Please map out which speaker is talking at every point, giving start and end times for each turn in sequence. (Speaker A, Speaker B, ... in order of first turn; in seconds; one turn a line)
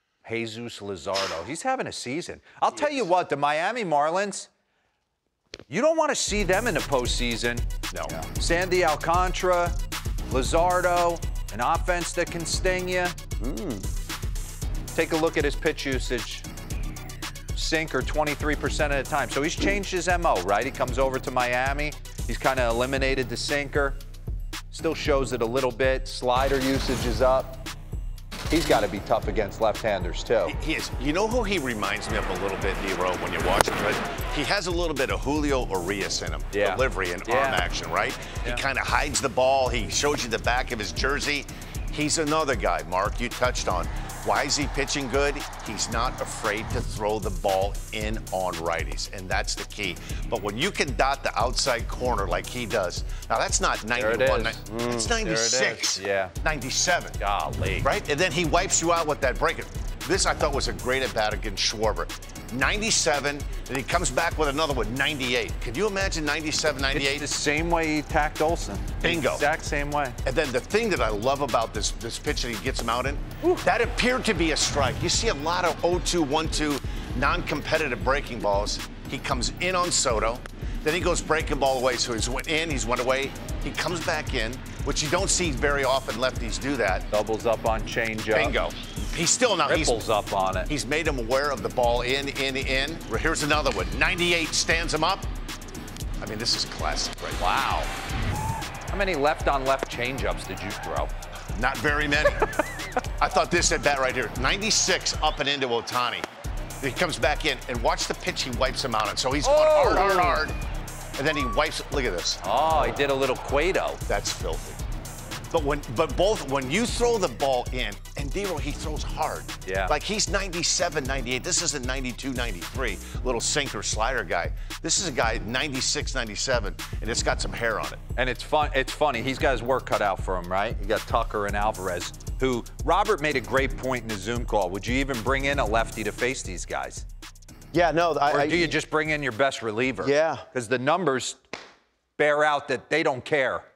Speaker A: 0.2-4.5
Speaker A: 5.7-9.8
Speaker A: 10.3-13.2
Speaker B: 13.4-13.9
Speaker A: 14.9-16.5
Speaker A: 17.5-24.0
Speaker A: 24.7-27.7
Speaker A: 28.5-30.6
Speaker C: 30.5-57.2
Speaker A: 36.5-37.6
Speaker A: 53.9-54.6
Speaker B: 54.7-55.1
Speaker A: 55.2-56.3
Speaker A: 57.2-57.9
Speaker C: 57.8-67.3
Speaker A: 66.9-70.2
Speaker C: 69.0-69.5
Speaker C: 70.2-87.1
Speaker A: 87.1-88.6
Speaker C: 88.3-90.0
Speaker A: 89.7-90.7
Speaker C: 90.7-95.3
Speaker C: 96.2-97.4
Speaker A: 97.4-97.9
Speaker A: 98.9-101.1
Speaker C: 101.5-102.5
Speaker C: 103.2-106.2
Speaker C: 106.8-110.5
Speaker A: 109.4-110.5
Speaker C: 111.2-112.4
Speaker A: 112.4-114.0
Speaker C: 114.1-114.8
Speaker C: 115.5-128.0
Speaker A: 119.7-119.9
Speaker A: 128.2-137.0
Speaker B: 137.7-138.8
Speaker A: 138.3-141.4
Speaker B: 140.0-140.4
Speaker A: 142.2-143.7